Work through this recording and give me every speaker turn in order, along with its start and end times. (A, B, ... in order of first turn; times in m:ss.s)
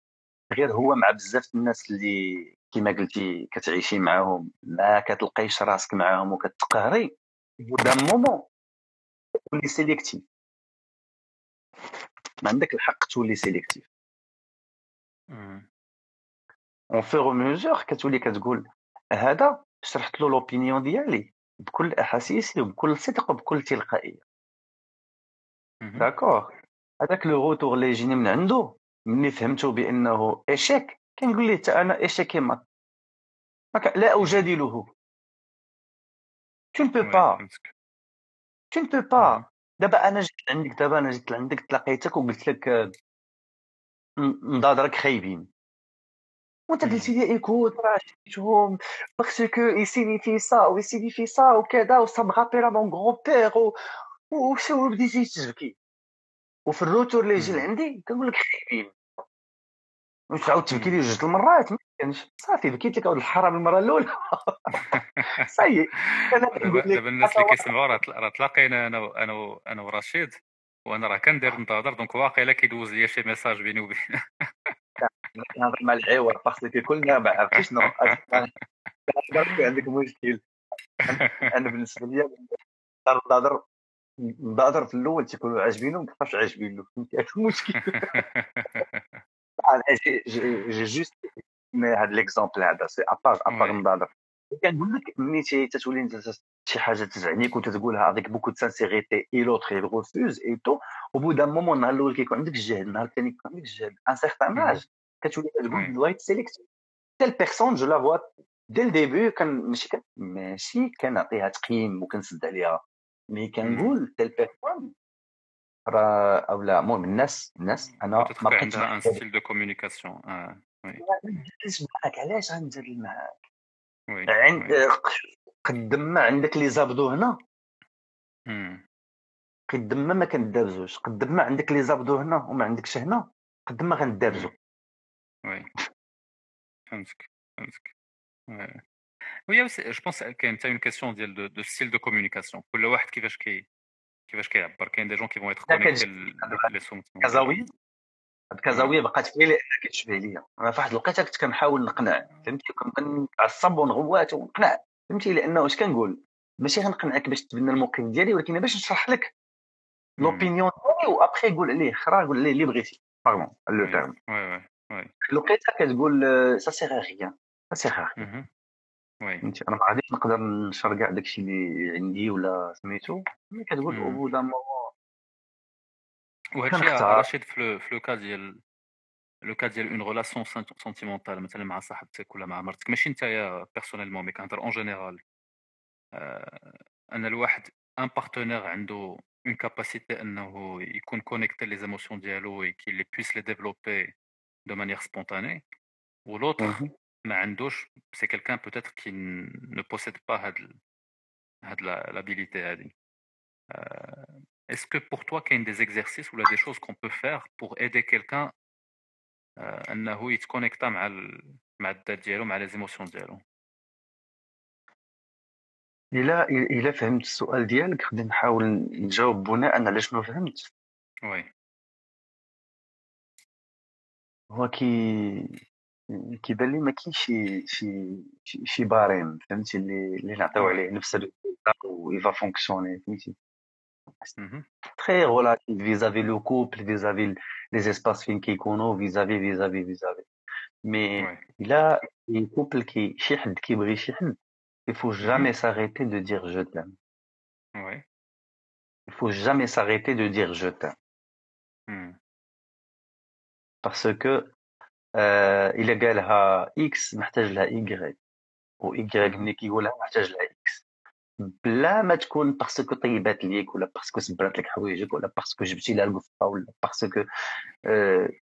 0:00.5-0:08.4 A
0:09.5-0:10.2 A
0:12.4-0:13.9 A
0:15.3-0:15.6 B
0:16.9-0:18.6 A
0:19.2-0:24.2 A
0:25.8-0:26.1 B
0:26.0-0:26.5 A
0:27.0-0:32.6 A
0:33.7-0:34.9 A
0:34.2-0:34.5 B
0:36.7-0:37.4 A
0:37.0-0:37.7 B
0:38.7-0:42.8 A
0:39.2-0:39.4 B
0:44.2-0:45.5 A
0:46.7-0:53.7 A
0:46.8-0:47.1 B
0:54.3-0:55.8 A
0:56.6-0:58.9 A
0:57.4-0:57.7 B
1:00.3-1:07.6 A
1:00.7-1:01.0 B
1:04.8-1:05.5 B
1:06.0-1:10.3 B
1:10.8-1:14.7 B
1:15.0-1:18.5 A
1:17.4-1:18.6 B
1:19.1-1:20.4 A
1:19.4-1:19.6 B
1:21.0-1:22.5 A
1:21.1-1:21.5 B
1:23.0-1:23.6 A
1:24.2-1:28.1 A
1:27.8-1:29.2 B
1:29.6-1:46.6 A
1:33.5-1:33.8 B
1:44.5-1:44.8 B
1:45.7-1:45.9 B
1:47.2-1:52.8 A
1:53.3-1:54.9 A
1:53.6-1:53.9 B
1:55.8-1:59.2 A
1:58.2-2:01.0 B
2:01.0-2:03.4 A
2:04.1-2:04.8 B
2:04.3-2:07.4 A
2:08.5-2:08.8 B
2:09.7-2:14.5 A
2:16.9-2:17.9 B
2:18.5-2:18.8 B
2:19.5-2:23.7 B
2:24.3-2:27.7 B
2:25.7-2:26.7 A
2:27.2-2:27.7 A
2:28.5-2:39.3 A
2:28.7-2:29.0 B
2:40.2-2:40.5 B
2:40.2-2:44.1 A
2:43.8-2:45.1 B
2:45.2-2:48.2 A
2:48.2-2:48.5 B
2:49.4-2:54.9 A
2:53.9-2:54.2 B
2:56.6-2:58.6 B
2:56.7-2:57.2 A
2:59.5-3:05.2 B
3:06.2-3:14.1 B
3:14.6-3:15.6 B
3:16.3-3:20.7 B
3:16.6-3:16.9 A
3:21.7-3:22.9 B
3:23.7-3:28.5 B
3:29.6-3:33.4 B
3:36.1-3:40.7 A
3:44.5-3:53.3 A
3:50.6-3:50.8 B
3:54.4-3:54.6 B
3:55.0-4:00.2 A
4:00.8-4:04.4 A
4:04.9-4:06.9 A
4:05.2-4:05.5 B
4:09.1-4:10.9 A
4:11.9-4:12.2 B
4:13.8-4:14.5 A
4:15.2-4:18.2 A
4:18.8-4:20.8 A
4:19.2-4:19.5 B
4:21.4-4:27.2 A
4:27.8-4:28.3 A